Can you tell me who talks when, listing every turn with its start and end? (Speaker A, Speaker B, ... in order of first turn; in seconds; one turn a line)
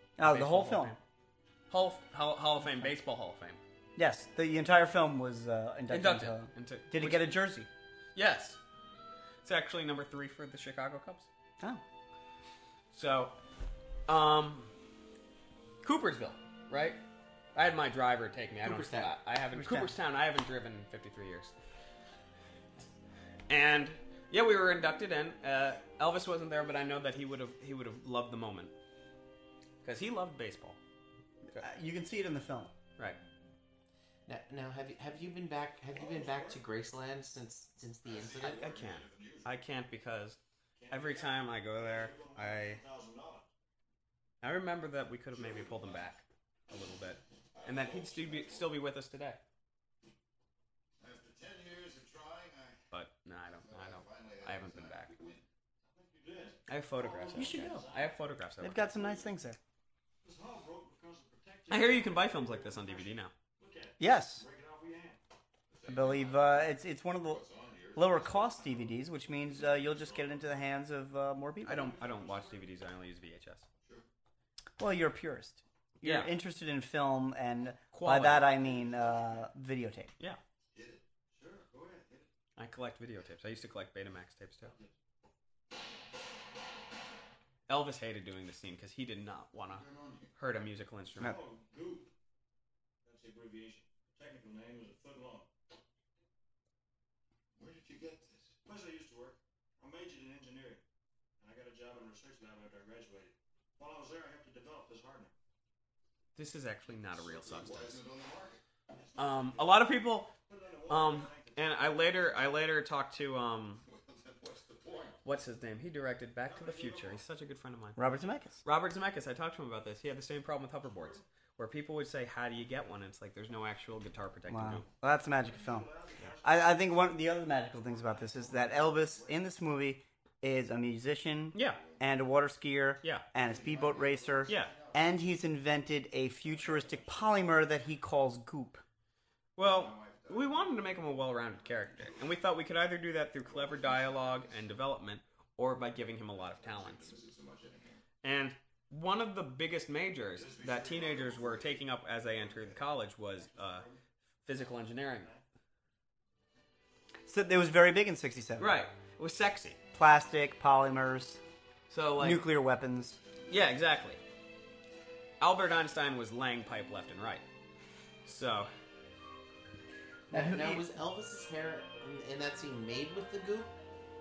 Speaker A: 0.2-1.0
Speaker B: 0.2-1.0
Speaker B: 1.7-3.6
Speaker A: 4.0-7.7
Speaker B: 5.9-7.3
Speaker B: 8.1-8.6
Speaker B: 9.4-11.3
Speaker B: 12.9-13.3
Speaker B: 14.1-14.7
Speaker B: 15.8-17.0
Speaker B: 17.5-21.5
Speaker C: 18.6-19.1
Speaker A: 19.5-19.9
Speaker B: 23.5-28.7
Speaker B: 29.8-30.8
Speaker A: 31.6-32.7
Speaker C: 34.3-38.6
Speaker D: 35.9-36.6
Speaker E: 38.0-39.5
Speaker B: 38.5-40.4
Speaker D: 40.8-43.5
Speaker B: 40.9-42.8
Speaker B: 44.4-49.4
Speaker E: 45.3-46.1
Speaker E: 47.5-48.7
Speaker E: 51.0-52.8
Speaker B: 52.9-55.1
Speaker E: 53.5-55.4
Speaker D: 55.8-58.2
Speaker B: 56.7-59.2
Speaker A: 57.4-57.9
Speaker A: 58.6-59.6
Speaker D: 60.2-65.2
Speaker B: 61.7-63.3
Speaker A: 64.0-64.4
Speaker E: 65.7-69.0
Speaker A: 65.9-67.4
Speaker A: 67.9-72.0
Speaker B: 71.6-73.7
Speaker D: 71.8-72.6
Speaker A: 74.8-80.1
Speaker B: 76.0-76.3
Speaker B: 77.9-78.5
Speaker D: 78.7-79.4
Speaker E: 80.7-81.0
Speaker D: 81.3-82.3
Speaker B: 82.5-84.7
Speaker D: 84.6-84.9
Speaker B: 87.7-89.8
Speaker E: 89.7-90.3
Speaker B: 90.4-91.4
Speaker D: 91.2-92.1
Speaker D: 93.0-95.5
Speaker E: 97.5-98.5
Speaker D: 98.6-100.8
Speaker D: 101.4-105.3
Speaker B: 106.3-108.0
Speaker E: 107.1-108.6
Speaker D: 108.9-112.2
Speaker B: 109.2-110.3
Speaker B: 110.9-113.8
Speaker E: 113.8-115.2
Speaker B: 115.2-118.0
Speaker D: 116.5-117.2
Speaker A: 118.0-118.6
Speaker B: 118.6-124.8
Speaker D: 120.9-121.2
Speaker A: 124.5-125.9
Speaker D: 125.3-129.4
Speaker A: 126.4-138.8
Speaker B: 131.5-131.8
Speaker E: 133.4-134.9
Speaker B: 134.5-134.7
Speaker E: 136.6-137.0
Speaker B: 139.6-147.2
Speaker E: 139.6-141.0
Speaker E: 141.6-142.2
Speaker E: 143.4-144.7
Speaker E: 146.3-148.0
Speaker B: 148.2-153.9
Speaker E: 150.3-152.8
Speaker D: 153.4-154.0
Speaker B: 154.4-155.3
Speaker D: 155.1-155.4
Speaker A: 157.3-158.8
Speaker B: 158.6-159.8
Speaker A: 159.9-161.4
Speaker B: 161.9-162.5
Speaker A: 162.2-163.2
Speaker B: 163.5-164.2
Speaker B: 165.4-167.4
Speaker B: 168.2-168.7
Speaker C: 170.3-173.7
Speaker A: 170.3-170.8